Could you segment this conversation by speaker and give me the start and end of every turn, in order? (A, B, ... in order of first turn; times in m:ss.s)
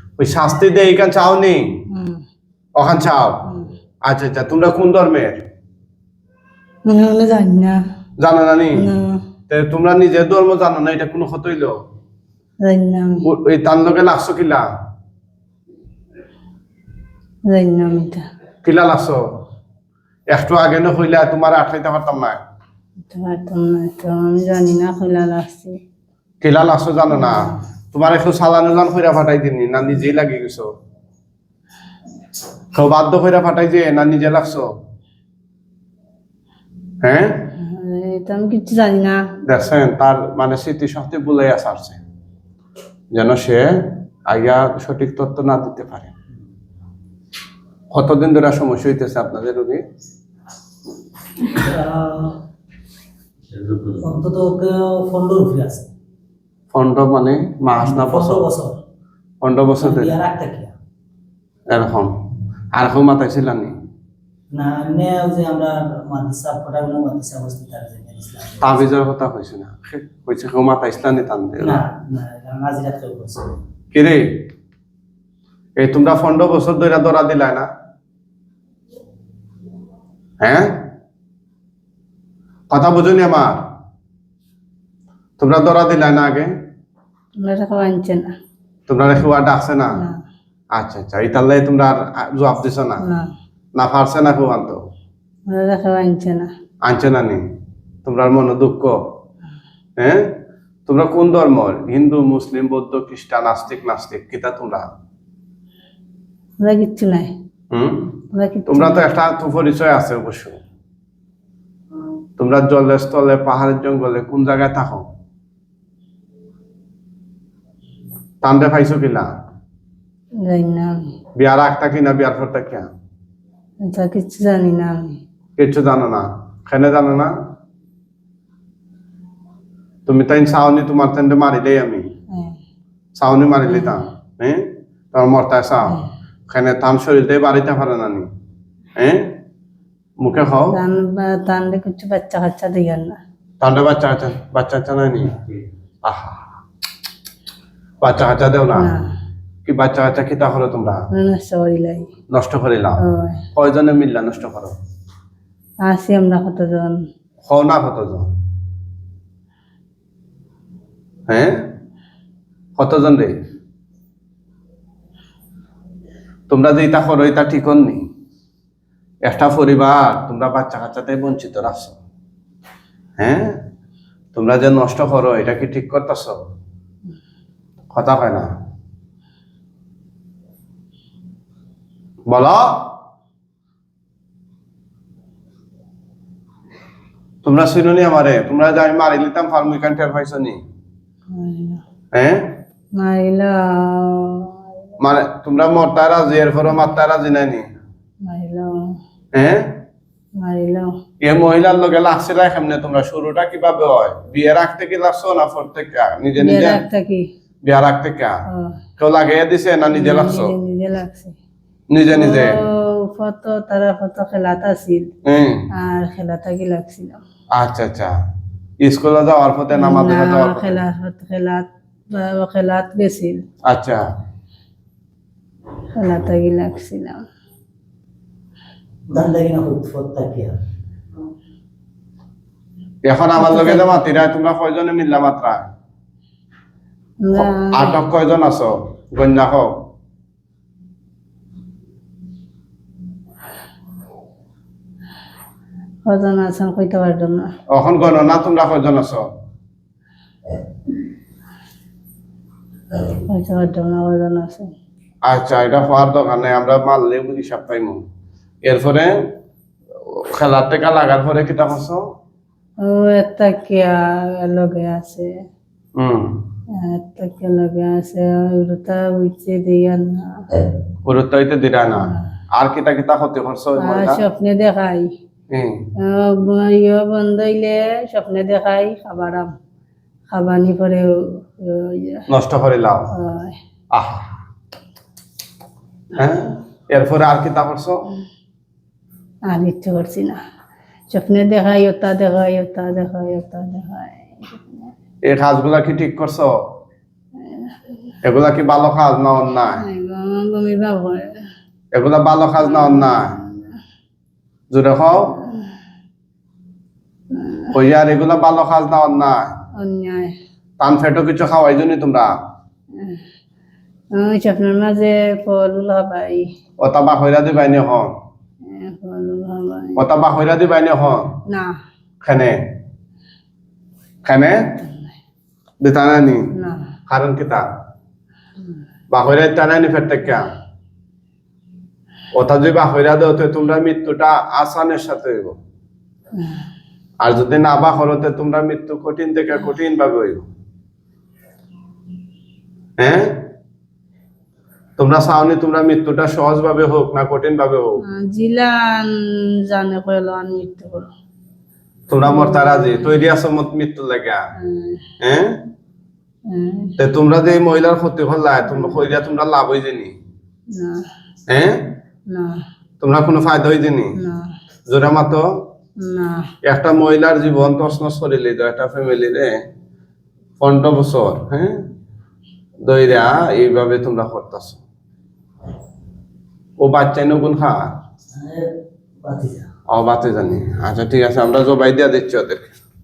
0:00.2-0:01.6 A
0:01.9-0:02.2 B
0:02.8-0:03.4 A
0:04.0-0:05.4 A
0:06.8-0:07.8 B
0:08.2-0:08.8 A
0:08.8-0:09.2 B
0:09.5-0:11.7 A
0:12.6-0:13.2 B
0:13.2-0:14.6 A
0:17.5-0:18.2 B
0:18.6-0:19.2 A
0:20.3-0:22.4 A
0:23.1-0:25.8 B
0:26.4-0:30.7 A
0:27.1-0:27.6 B
0:32.7-0:34.6 A
0:37.0-0:37.5 A
0:37.5-0:39.2 B
0:39.4-0:42.0 A
0:43.1-0:46.1 A
0:47.9-0:49.8 A
0:51.5-0:52.4 C
0:53.8-0:55.9 C
0:56.7-0:58.5 A
0:57.7-0:58.8 C
0:59.4-1:00.2 A
0:59.8-1:00.7 C
1:01.7-1:02.2 A
1:02.7-1:03.7 A
1:04.5-1:08.9 C
1:08.6-1:11.8 A
1:11.6-1:13.6 C
1:13.9-1:14.3 A
1:15.8-1:17.7 A
1:20.4-1:20.7 A
1:22.7-1:23.6 A
1:25.4-1:26.5 A
1:27.4-1:28.3 B
1:28.9-1:30.0 A
1:30.7-1:33.0 A
1:33.0-1:33.3 B
1:33.8-1:34.8 A
1:35.5-1:36.5 B
1:36.8-1:37.4 A
1:38.0-1:39.0 A
1:40.0-1:40.3 A
1:40.9-1:44.8 A
1:46.6-1:47.3 B
1:47.7-1:48.1 A
1:48.3-1:49.1 B
1:48.7-1:50.6 A
1:52.4-1:55.0 A
1:58.4-1:59.3 A
2:00.4-2:01.1 B
2:01.4-2:02.9 A
2:03.8-2:05.2 B
2:05.6-2:07.3 A
2:10.0-2:12.0 A
2:12.3-2:12.6 B
2:13.1-2:18.3 A
2:13.6-2:13.9 B
2:19.0-2:19.4 A
2:20.2-2:20.8 A
2:20.7-2:23.2 B
2:23.6-2:25.4 A
2:26.0-2:26.4 A
2:28.0-2:28.9 A
2:28.7-2:29.1 B
2:29.6-2:31.0 A
2:31.1-2:32.1 B
2:32.3-2:33.0 A
2:33.0-2:33.4 B
2:33.5-2:34.8 A
2:35.8-2:37.0 B
2:37.4-2:38.3 A
2:41.3-2:41.6 A
2:42.8-2:43.3 A
2:46.5-2:48.0 A
2:49.2-2:52.0 A
2:53.2-2:53.6 A
2:54.3-2:56.4 A
2:57.9-2:58.5 A
3:02.3-3:02.9 A
3:07.4-3:10.6 A
3:11.3-3:11.8 B
3:12.1-3:12.6 A
3:12.9-3:14.6 B
3:15.0-3:17.6 A
3:18.2-3:18.9 B
3:19.3-3:19.8 A
3:20.4-3:20.9 B
3:21.2-3:26.8 A
3:26.4-3:27.2 B
3:27.6-3:28.4 A
3:29.0-3:30.5 A
3:29.9-3:31.4 B
3:31.9-3:32.6 A
3:32.1-3:35.1 B
3:35.2-3:35.6 A
3:35.7-3:37.2 B
3:37.6-3:38.1 A
3:38.8-3:40.8 A
3:39.7-3:43.4 B
3:43.7-3:44.0 A
3:46.0-3:47.2 B
3:49.1-3:50.6 C
3:53.0-3:55.7 A
3:53.4-3:53.9 B
3:57.2-3:58.0 B
3:57.3-3:59.7 A
4:06.0-4:07.5 B
4:07.7-4:09.3 A
4:13.1-4:14.7 B
4:15.2-4:18.0 A
4:18.6-4:19.1 A
4:20.1-4:22.0 A
4:22.8-4:25.3 B
4:26.0-4:26.4 A
4:26.8-4:30.6 B
4:31.0-4:34.2 A
4:31.9-4:32.2 B
4:33.8-4:35.1 B
4:35.5-4:35.8 A
4:36.0-4:39.5 B
4:40.3-4:42.2 B
4:42.3-4:43.1 A
4:43.1-4:43.6 B
4:43.9-4:44.3 A
4:46.2-4:48.0 A
4:49.5-4:50.4 B
4:51.1-4:54.9 B
4:55.2-4:56.5 A
4:57.4-4:57.8 B
4:58.2-4:59.8 A
4:59.8-5:01.4 B
5:01.9-5:03.3 A
5:02.6-5:03.8 B
5:04.7-5:05.3 A
5:07.3-5:07.7 B
5:07.7-5:09.5 A
5:09.8-5:10.3 B
5:10.8-5:12.3 A
5:13.0-5:13.2 B
5:14.1-5:16.5 B
5:16.8-5:18.1 A
5:18.6-5:20.0 B
5:20.0-5:21.4 A
5:21.5-5:21.8 B
5:22.2-5:22.6 A
5:24.2-5:24.7 A
5:24.8-5:25.1 B
5:25.8-5:26.5 A
5:26.5-5:26.9 B
5:27.1-5:27.6 A
5:29.1-5:30.5 A
5:32.3-5:35.6 A
5:37.2-5:40.4 A
5:43.0-5:43.4 A
5:45.0-5:48.0 A
5:48.1-5:51.1 B
5:52.1-5:54.4 A
5:52.2-5:53.1 B
5:54.6-5:55.0 B
5:55.2-5:55.6 A
5:56.5-5:56.9 B
5:57.0-6:00.2 A
5:58.7-5:59.0 B
6:00.7-6:01.0 B
6:01.5-6:02.0 A
6:02.3-6:02.6 B
6:03.0-6:04.1 A
6:04.2-6:04.5 B
6:04.9-6:05.6 A
6:06.0-6:06.5 B
6:06.6-6:09.6 A
6:10.6-6:11.8 A
6:12.8-6:14.8 A
6:16.8-6:17.8 A
6:18.3-6:18.7 C
6:19.2-6:19.7 C
6:19.9-6:22.7 A